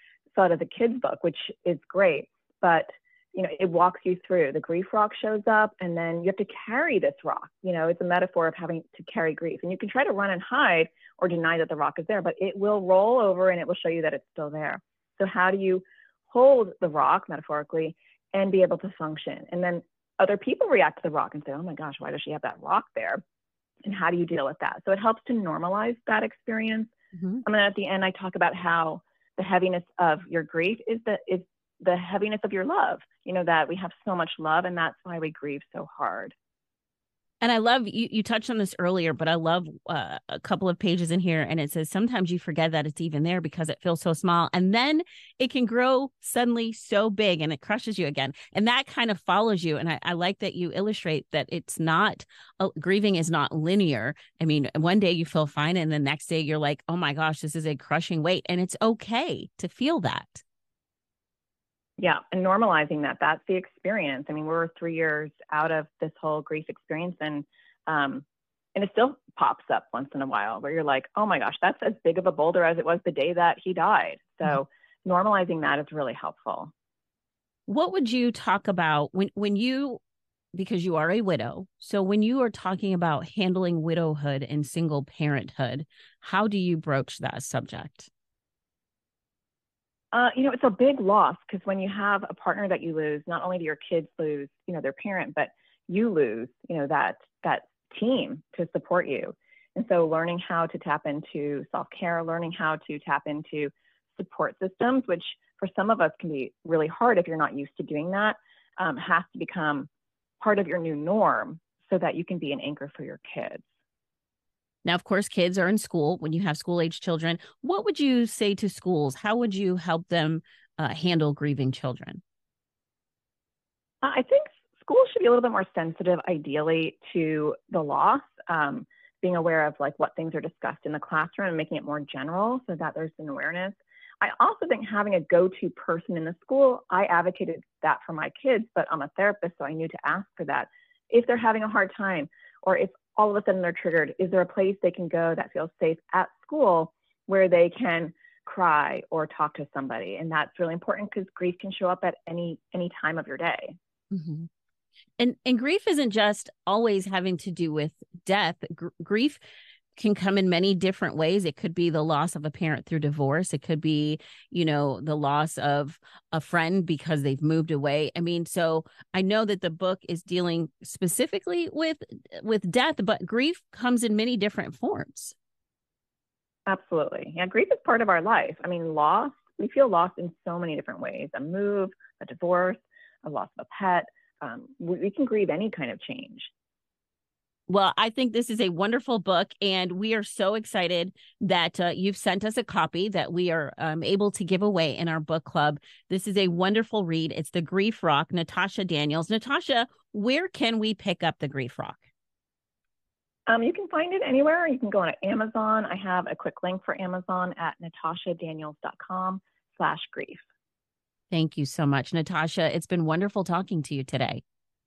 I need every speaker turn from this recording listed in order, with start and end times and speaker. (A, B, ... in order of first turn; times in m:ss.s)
0:00.3-0:23.2 A
0:23.8-0:36.3 A
0:37.4-1:00.4 B
1:02.0-1:16.7 A
1:17.7-1:20.0 B
1:20.5-1:28.1 B
1:30.1-1:49.9 A
1:50.4-1:53.6 A
1:54.8-2:02.2 B
2:04.0-2:33.8 A
2:34.1-2:34.5 B
2:35.2-2:39.4 B
2:40.0-2:55.3 B
2:56.7-3:06.5 A
3:07.7-3:22.0 B
3:23.5-3:30.4 A
3:31.3-3:34.4 B